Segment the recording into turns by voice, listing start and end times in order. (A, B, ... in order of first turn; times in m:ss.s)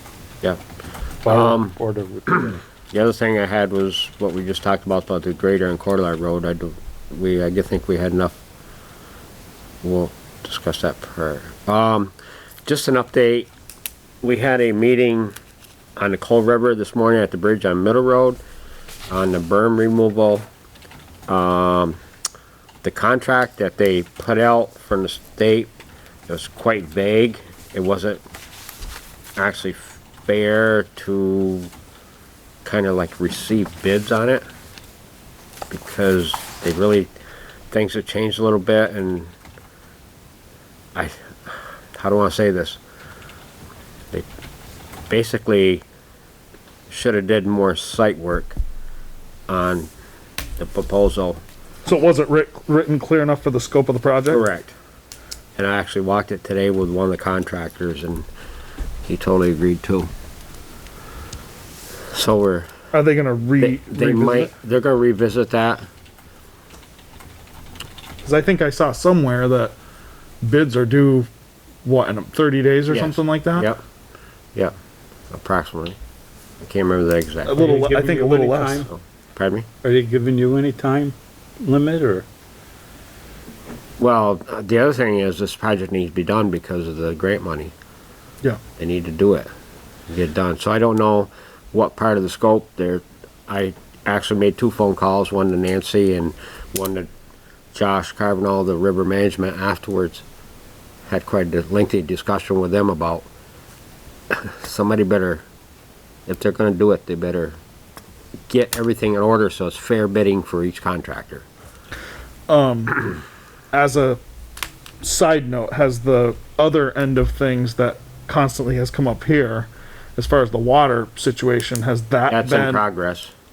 0:01.2-0:02.6 A
0:01.2-0:01.8 B
0:02.3-0:08.4 B
0:09.8-0:12.1 B
0:12.6-0:13.5 B
0:14.2-0:15.3 B
0:16.0-0:18.4 B
0:19.1-0:20.5 B
0:21.3-0:22.0 B
0:22.8-0:25.7 B
0:26.3-0:28.2 B
0:29.4-0:31.7 B
0:32.6-0:34.4 B
0:35.7-0:37.1 B
0:37.7-0:39.3 B
0:40.9-0:42.8 B
0:45.1-0:45.8 B
0:46.9-0:48.6 B
0:49.5-0:49.9 B
0:50.6-0:51.4 B
0:51.8-0:54.4 C
0:54.3-0:54.7 B
0:55.6-0:58.3 B
0:59.0-1:00.1 B
1:02.1-1:02.7 B
1:02.9-1:04.5 C
1:03.6-1:05.9 B
1:08.2-1:09.8 C
1:10.4-1:11.3 C
1:11.8-1:13.7 C
1:12.9-1:13.8 B
1:15.3-1:16.0 B
1:16.6-1:17.6 B
1:17.4-1:18.9 C
1:17.5-1:18.9 A
1:18.9-1:19.7 B
1:19.8-1:22.3 A
1:24.0-1:27.7 B
1:28.8-1:29.5 B
1:30.1-1:37.1 B
1:37.7-1:40.2 B
1:41.1-1:43.3 B
1:44.3-1:45.4 B
1:46.3-1:47.6 B
1:48.5-1:51.4 B
1:52.5-1:53.2 C
1:53.7-1:54.2 C
1:55.0-2:02.8 C
2:02.3-2:03.3 B